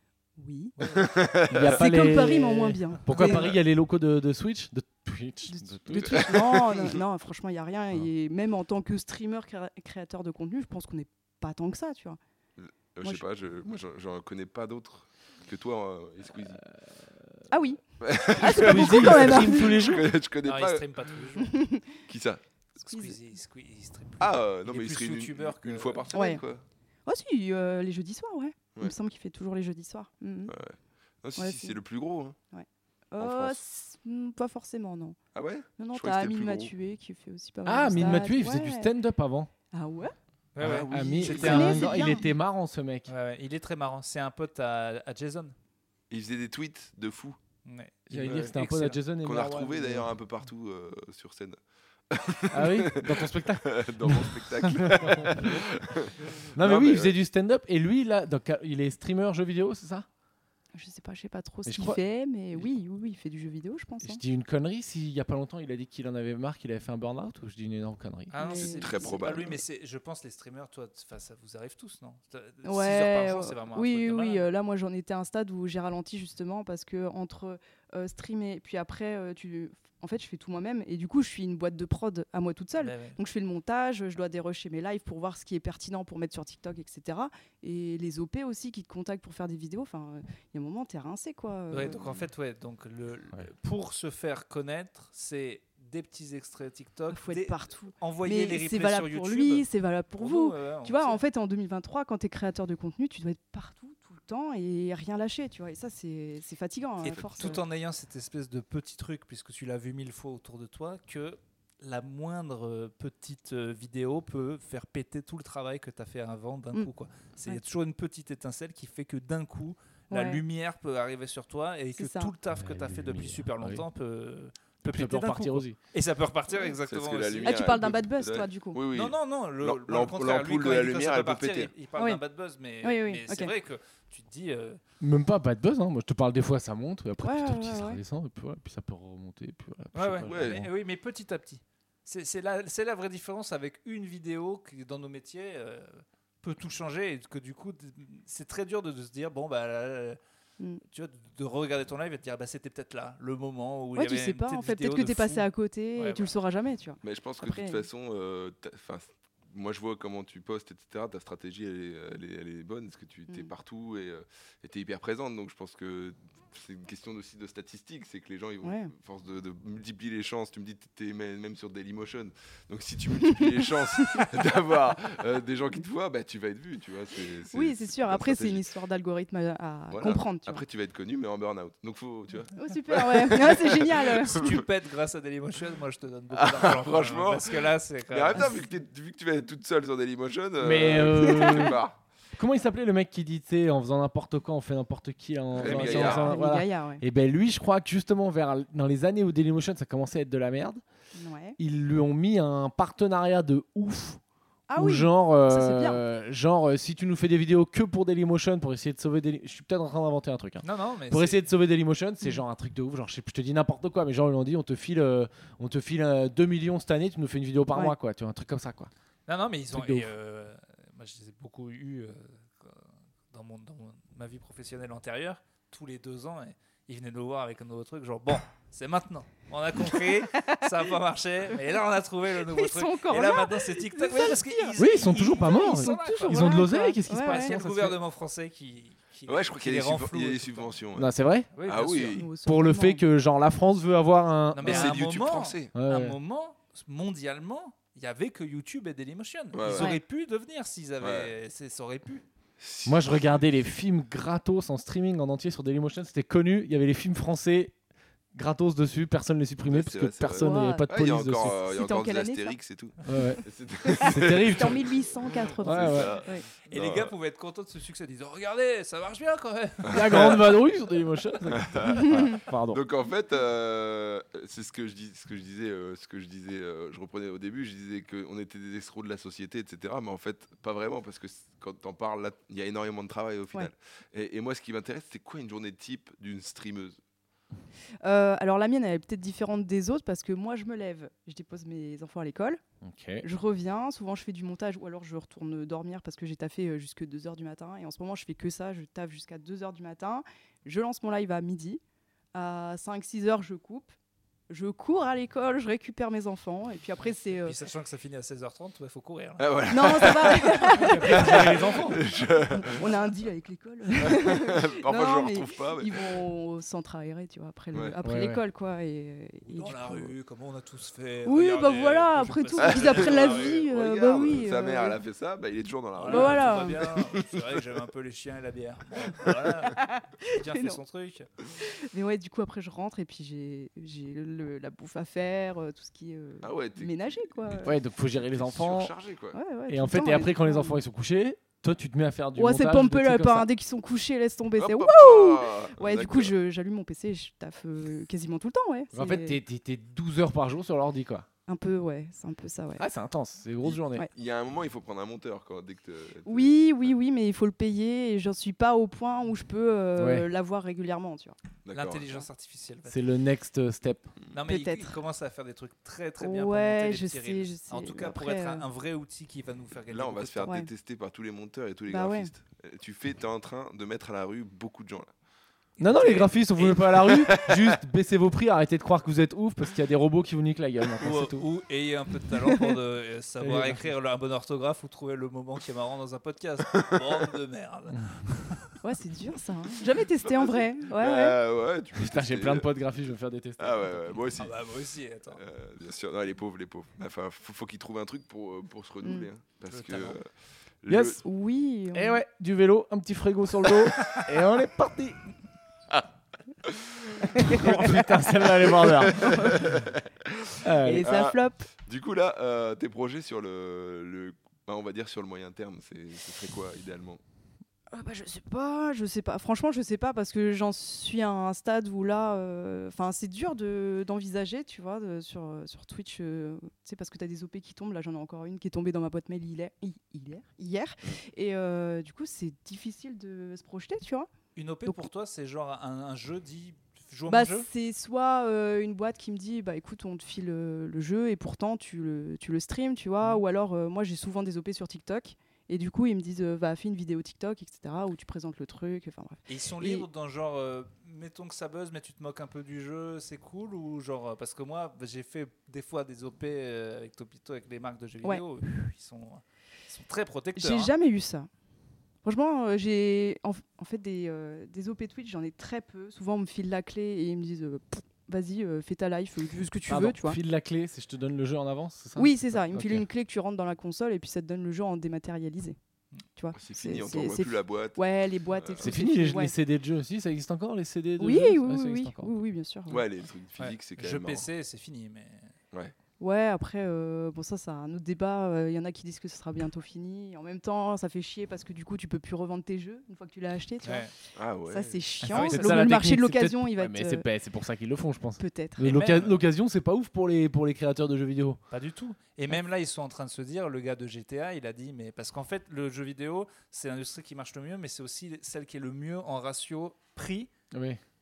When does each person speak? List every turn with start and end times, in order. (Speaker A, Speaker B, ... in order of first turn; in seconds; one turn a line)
Speaker A: 0.4-0.8
Speaker B: 0.8-1.1
Speaker C: 0.8-1.8
Speaker D: 1.5-6.4
Speaker A: 1.6-3.5
Speaker C: 3.2-3.6
Speaker A: 5.5-12.2
Speaker C: 5.9-7.0
Speaker C: 12.6-16.6
Speaker A: 17.5-20.0
Speaker C: 18.0-21.0
Speaker D: 18.4-20.1
Speaker B: 20.4-21.6
Speaker A: 21.4-22.0
Speaker C: 22.1-22.4
Speaker B: 22.8-26.1
Speaker A: 22.9-23.2
Speaker C: 24.2-26.6
Speaker A: 26.1-26.4
Speaker A: 27.1-30.5
Speaker C: 30.5-32.4
Speaker A: 31.4-31.8
Speaker A: 32.5-35.2
Speaker C: 33.2-33.6
Speaker C: 35.3-36.7
Speaker A: 35.8-38.9
Speaker D: 37.6-39.5
Speaker A: 39.7-40.1
Speaker B: 40.5-42.0
Speaker C: 40.6-42.1
Speaker D: 40.9-43.1
Speaker A: 41.2-42.3
Speaker B: 43.1-45.5
Speaker C: 46.1-47.4
Speaker B: 47.6-49.0
Speaker D: 48.1-50.1
Speaker C: 48.2-48.5
Speaker C: 49.2-51.6
Speaker C: 52.1-57.1
Speaker D: 52.5-55.6
Speaker D: 56.5-60.0
Speaker A: 60.7-64.2
Speaker D: 61.6-62.0
Speaker D: 64.0-68.3
Speaker B: 68.3-74.5
Speaker A: 68.4-69.4
Speaker C: 68.5-69.6
Speaker A: 72.6-92.1
Speaker B: 82.8-83.2
Speaker B: 91.7-99.7
Speaker C: 91.9-92.1
Speaker A: 97.1-107.6
Speaker B: 100.2-101.2
Speaker C: 107.0-107.6
Speaker B: 107.0-127.6
Speaker A: 120.1-120.4
Speaker A: 122.0-122.3
Speaker D: 122.5-123.8
Speaker D: 124.8-125.8
Speaker C: 126.6-131.7
Speaker A: 127.4-128.8
Speaker B: 128.9-134.8
Speaker A: 132.8-133.5
Speaker D: 135.0-140.7
Speaker A: 137.2-138.0
Speaker B: 139.9-150.2
Speaker C: 140.2-140.6
Speaker B: 150.9-156.3
Speaker A: 153.9-157.8
Speaker C: 157.0-178.6
Speaker A: 168.6-168.9
Speaker A: 173.2-173.6
Speaker A: 177.5-180.6
Speaker C: 179.9-184.6
Speaker A: 182.5-184.5
Speaker B: 184.2-188.6
Speaker C: 186.3-192.0
Speaker D: 190.6-191.8
Speaker A: 191.2-191.7
Speaker D: 192.3-200.8
Speaker C: 195.5-196.3
Speaker B: 195.6-196.3
Speaker A: 196.0-197.0
Speaker A: 201.1-201.6
Speaker D: 201.6-204.2
Speaker A: 204.7-206.0
Speaker D: 204.8-218.9
Speaker B: 210.6-211.4
Speaker B: 219.3-240.7
Speaker D: 219.7-220.1
Speaker A: 229.8-230.7
Speaker A: 232.4-234.8
Speaker D: 234.8-238.0
Speaker A: 235.3-237.6
Speaker C: 239.3-241.1
Speaker D: 240.9-241.5
Speaker B: 241.5-242.2
Speaker C: 241.6-242.3
Speaker A: 242.1-243.0
Speaker D: 242.4-245.0
Speaker B: 244.5-252.2
Speaker C: 244.6-245.7
Speaker D: 245.7-246.2
Speaker C: 249.5-249.9
Speaker A: 249.7-250.0
Speaker C: 251.0-251.3
Speaker C: 252.6-253.4
Speaker D: 252.8-257.7
Speaker D: 258.3-261.6
Speaker C: 259.6-267.1
Speaker A: 260.4-260.9
Speaker A: 261.5-262.5
Speaker D: 263.0-263.4
Speaker A: 263.1-266.4
Speaker D: 264.0-264.9
Speaker D: 265.6-266.2
Speaker B: 266.7-270.5
Speaker C: 269.8-270.6
Speaker D: 269.9-272.8
Speaker C: 271.5-287.0
Speaker A: 288.0-292.6
Speaker D: 292.8-293.2
Speaker A: 293.2-301.8
Speaker A: 302.3-303.9
Speaker A: 304.5-307.6
Speaker B: 307.4-309.5
Speaker C: 309.4-312.9
Speaker A: 309.7-311.7
Speaker D: 310.8-312.0
Speaker B: 311.0-311.5
Speaker A: 312.5-320.1
Speaker C: 314.0-316.0
Speaker D: 318.0-318.4
Speaker B: 319.5-323.6
Speaker A: 321.2-325.0
Speaker C: 322.6-327.8
Speaker B: 325.9-331.3
Speaker A: 326.1-326.8
Speaker A: 329.7-330.8
Speaker A: 331.6-337.7
Speaker C: 336.4-339.4
Speaker D: 337.6-338.9
Speaker A: 339.3-340.8
Speaker D: 339.7-343.5
Speaker A: 342.4-349.4
Speaker C: 344.6-346.3
Speaker D: 348.9-351.2
Speaker A: 351.5-352.8
Speaker D: 352.8-354.1
Speaker C: 353.6-356.7
Speaker A: 356.2-361.4
Speaker D: 360.0-360.3
Speaker C: 361.6-362.1
Speaker B: 361.7-363.0
Speaker D: 362.9-364.1
Speaker B: 364.3-370.5
Speaker A: 364.5-365.0
Speaker A: 366.2-368.6
Speaker C: 369.9-375.1
Speaker A: 371.9-372.3
Speaker B: 375.8-377.3
Speaker D: 375.8-381.4
Speaker C: 377.0-377.8
Speaker B: 381.0-388.7
Speaker D: 383.4-383.9
Speaker A: 388.8-391.4
Speaker C: 390.2-392.7
Speaker D: 391.9-394.2
Speaker C: 393.6-394.6
Speaker B: 394.4-395.4
Speaker C: 395.3-400.3
Speaker A: 399.0-399.3
Speaker B: 399.7-400.2
Speaker C: 400.8-401.2
Speaker D: 400.9-401.2
Speaker A: 401.2-402.2
Speaker D: 401.9-405.2
Speaker C: 406.6-407.9
Speaker A: 407.3-408.1
Speaker D: 407.4-409.7
Speaker C: 408.6-417.2
Speaker A: 409.0-409.6
Speaker D: 410.6-411.1
Speaker A: 410.8-411.6
Speaker A: 417.9-434.3
Speaker B: 434.6-437.7
Speaker A: 437.3-450.1
Speaker B: 449.5-460.9
Speaker A: 460.6-461.5
Speaker A: 462.2-470.4
Speaker D: 469.9-473.0
Speaker A: 472.1-475.8
Speaker A: 476.4-479.5
Speaker C: 476.5-478.0
Speaker C: 478.5-478.9
Speaker D: 478.8-482.3
Speaker A: 481.2-483.0
Speaker C: 482.9-484.5
Speaker B: 483.6-485.5
Speaker A: 486.2-494.1
Speaker B: 493.8-494.1
Speaker C: 494.4-495.0
Speaker A: 494.7-497.2
Speaker D: 495.2-501.6
Speaker B: 495.3-495.6
Speaker A: 498.4-498.8
Speaker B: 498.8-499.4
Speaker B: 501.7-510.5
Speaker D: 510.7-511.0